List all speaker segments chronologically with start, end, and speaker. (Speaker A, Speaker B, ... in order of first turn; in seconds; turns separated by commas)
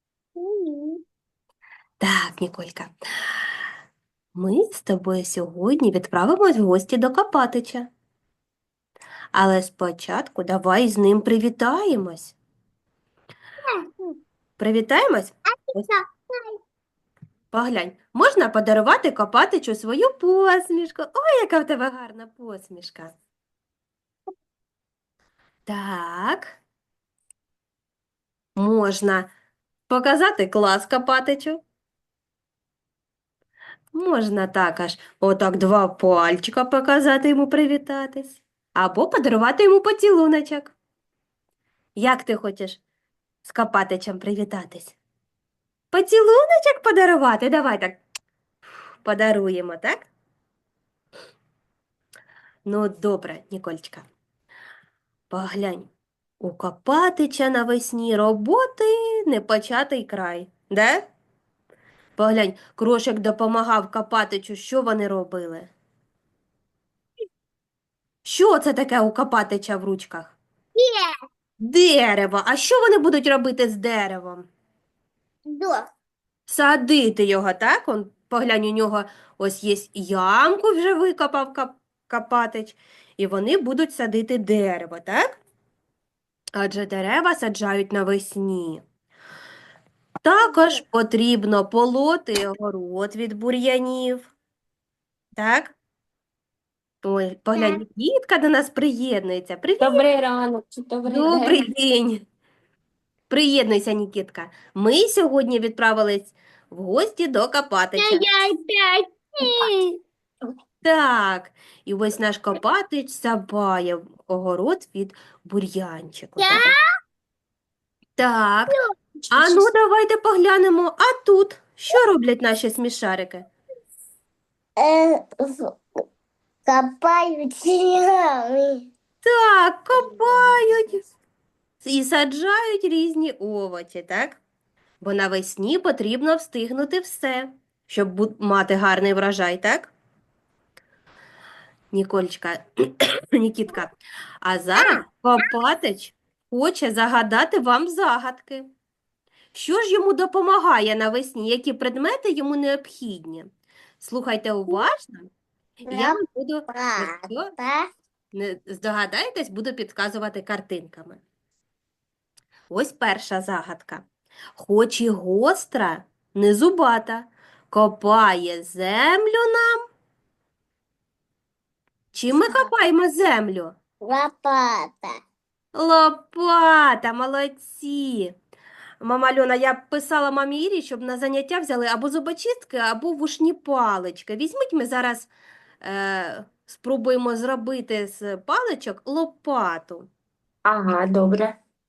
Speaker A: 0.4-1.0, Speaker B: 2.0-3.4, Speaker B: 4.3-7.9, Speaker B: 9.3-12.3, Speaker A: 13.7-14.1, Speaker B: 14.6-15.9, Speaker A: 15.8-16.6, Speaker B: 17.5-23.1, Speaker B: 25.7-26.6, Speaker B: 28.6-29.3, Speaker B: 29.9-31.6, Speaker B: 33.9-40.7, Speaker B: 42.0-42.8, Speaker B: 43.4-45.0, Speaker B: 45.9-48.0, Speaker B: 49.0-50.1, Speaker B: 52.7-54.1, Speaker B: 55.3-55.9, Speaker B: 56.4-61.1, Speaker B: 62.2-65.7, Speaker B: 68.2-70.3, Speaker A: 70.8-71.1, Speaker B: 71.6-74.5, Speaker A: 75.5-75.8, Speaker B: 76.5-85.4, Speaker B: 86.6-88.8, Speaker B: 90.2-94.3, Speaker B: 95.4-95.8, Speaker B: 97.0-100.1, Speaker A: 97.5-97.8, Speaker C: 99.8-101.6, Speaker B: 101.0-102.2, Speaker B: 103.3-108.3, Speaker A: 108.0-109.9, Speaker B: 110.8-116.7, Speaker A: 116.4-116.7, Speaker B: 118.2-118.8, Speaker B: 119.3-123.5, Speaker A: 124.8-125.8, Speaker A: 126.7-128.9, Speaker B: 129.2-131.0, Speaker B: 131.8-134.4, Speaker B: 135.0-139.9, Speaker B: 141.9-148.7, Speaker B: 149.5-153.5, Speaker B: 154.0-155.3, Speaker B: 155.9-157.5, Speaker A: 155.9-157.9, Speaker B: 158.3-161.2, Speaker B: 162.7-164.1, Speaker B: 164.6-169.8, Speaker B: 172.1-173.7, Speaker A: 174.0-175.2, Speaker B: 175.8-178.3, Speaker B: 179.0-185.3, Speaker B: 185.8-190.1, Speaker C: 190.7-191.6